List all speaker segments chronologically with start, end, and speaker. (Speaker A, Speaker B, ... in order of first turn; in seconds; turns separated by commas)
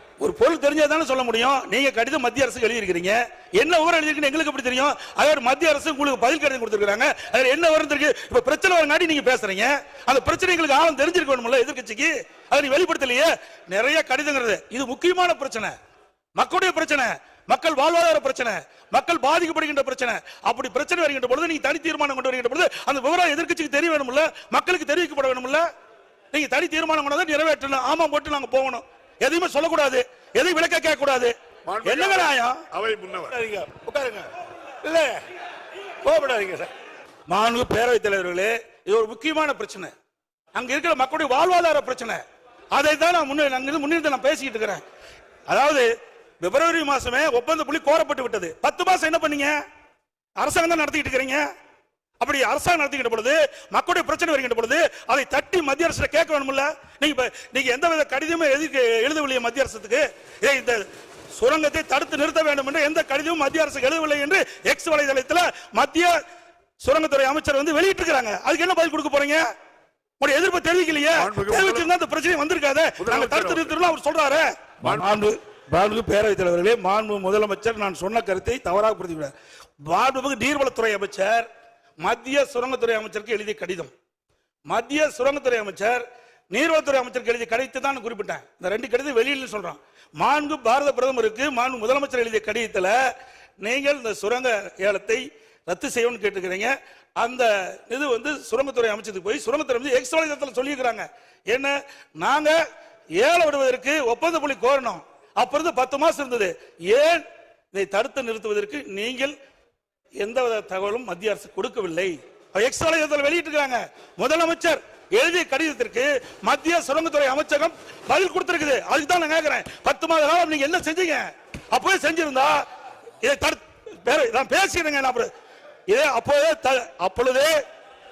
Speaker A: 0.2-15.8, Speaker A: 16.4-25.6, Speaker A: 26.3-32.6, Speaker B: 31.6-33.4, Speaker C: 33.3-34.3, Speaker C: 34.8-35.2, Speaker C: 36.0-36.7, Speaker A: 37.3-39.9, Speaker A: 40.5-42.2, Speaker A: 42.7-44.8, Speaker A: 45.5-45.9, Speaker A: 46.4-49.5, Speaker A: 50.4-51.5, Speaker A: 52.2-60.8, Speaker A: 61.4-66.1, Speaker A: 66.8-69.4, Speaker A: 70.2-79.3, Speaker B: 71.1-71.9, Speaker B: 73.0-73.8, Speaker B: 74.8-75.1, Speaker A: 79.9-81.5, Speaker A: 82.0-83.9, Speaker A: 84.7-93.0, Speaker A: 93.6-102.6, Speaker A: 103.2-109.4, Speaker A: 110.2-122.6, Speaker A: 123.2-125.3, Speaker A: 125.9-127.6